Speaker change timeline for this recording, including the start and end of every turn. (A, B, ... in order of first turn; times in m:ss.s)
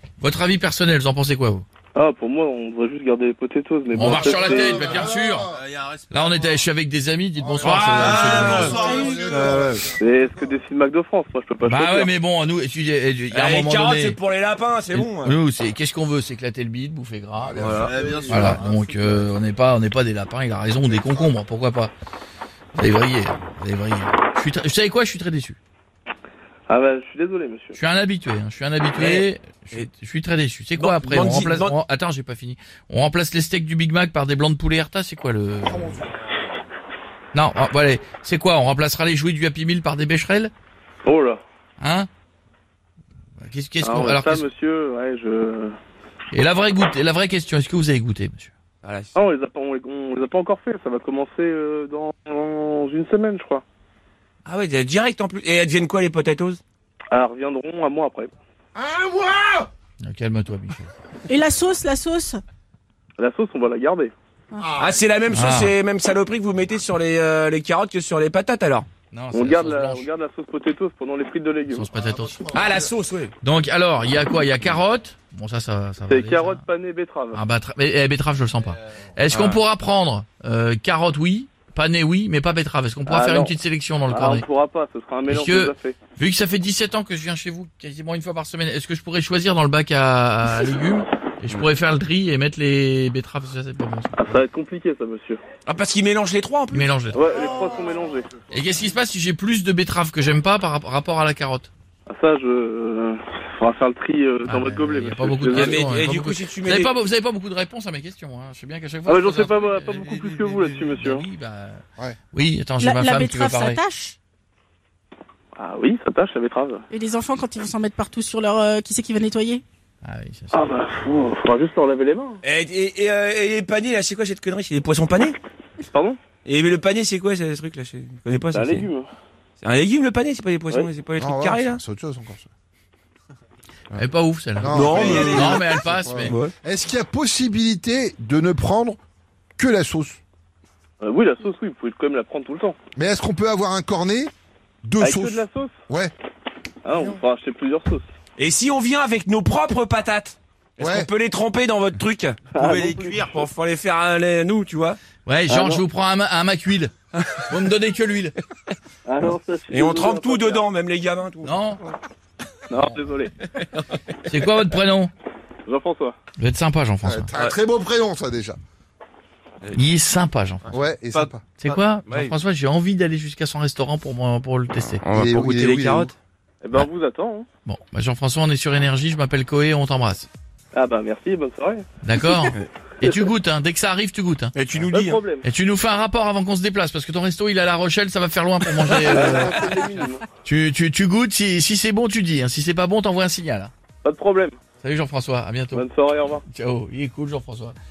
0:00.2-0:01.6 A
0:01.9-0:04.8 B
0:03.9-0:05.5 A
0:04.0-0:05.6 C
0:04.8-0:06.6 D
0:06.1-0:08.8 A
0:07.4-0:10.4 C
0:07.6-0:08.9 E
0:07.6-0:09.9 D
0:08.9-0:09.2 F
0:10.0-0:12.1 B
0:11.6-0:14.2 A
0:13.3-0:15.4 E
0:14.9-0:21.9 A
0:17.4-0:19.3 C
0:17.6-0:18.6 D
0:22.7-0:25.6 A
0:26.7-0:27.8 B
0:27.7-0:36.0 A
0:28.9-0:29.9 E
0:30.7-0:31.7 E
0:35.6-0:36.1 C
0:37.3-0:40.5 A
0:41.0-0:41.4 B
0:41.8-0:42.1 A
0:43.4-0:44.5 A
0:43.8-0:45.8 B
0:46.3-0:48.5 A
0:48.8-0:49.2 E
0:49.1-0:53.6 B
0:54.4-0:56.6 E
0:57.1-0:58.3 B
0:58.8-0:59.7 C
1:00.0-1:00.8 A
1:01.3-1:02.4 F
1:03.2-1:04.1 B
1:04.6-1:05.0 C
1:04.8-1:08.9 E
1:05.3-1:05.7 A
1:09.1-1:10.1 A
1:09.3-1:11.8 B
1:11.7-1:12.4 A
1:11.9-1:13.0 C
1:12.5-1:13.3 E
1:13.4-1:16.6 A
1:16.1-1:17.4 B
1:17.3-1:24.4 A
1:19.3-1:19.6 E
1:23.0-1:23.5 B
1:24.1-1:26.0 B
1:25.3-1:34.2 A
1:34.2-1:35.4 B
1:35.6-1:36.9 E
1:36.7-1:37.2 A
1:37.1-1:38.3 B
1:38.5-1:41.7 A
1:42.1-1:45.9 B
1:44.4-1:53.8 A
1:45.5-1:46.9 E
1:49.1-1:51.2 B
1:52.8-1:54.2 F
1:55.6-1:56.8 B
1:56.9-1:59.6 F
2:00.0-2:00.6 A
2:00.5-2:02.4 B
2:02.4-2:05.4 E
2:05.8-2:06.2 B
2:06.4-2:08.9 E
2:08.5-2:09.1 B
2:09.6-2:11.8 E
2:11.2-2:12.5 C
2:13.9-2:16.3 A
2:14.6-2:19.0 C
2:14.7-2:16.5 E
2:19.6-2:20.2 C
2:21.0-2:22.8 B
2:22.9-2:24.3 C
2:24.8-2:26.1 C
2:25.0-2:25.7 B
2:26.8-2:28.1 B
2:26.9-2:27.2 C
2:28.4-2:35.0 E
2:30.8-2:31.1 C
2:32.5-2:33.4 B
2:32.6-2:33.5 D
2:35.2-2:38.4 A
2:35.5-2:35.8 B
2:39.0-2:40.6 B
2:39.7-2:42.0 E
2:41.4-2:41.8 A
2:42.7-2:43.3 B
2:43.6-2:43.8 E
2:44.2-2:45.1 A
2:45.6-2:46.2 B
2:46.4-2:47.3 A
2:47.0-2:48.6 C
2:49.7-2:50.6 A
2:50.6-2:51.8 D
2:50.7-2:51.4 C
2:51.6-2:55.0 A
2:52.0-2:52.3 E
2:55.0-2:56.2 E
2:55.1-2:56.1 C
2:56.6-2:57.4 B
2:57.6-3:00.3 A
3:00.7-3:01.8 B
3:02.0-3:04.5 A
3:04.5-3:05.2 E
3:04.9-3:05.4 B
3:05.4-3:09.6 A
3:09.0-3:10.2 B
3:10.4-3:13.7 A
3:14.0-3:14.6 B
3:14.8-3:15.8 A
3:15.7-3:16.4 B
3:16.5-3:17.8 A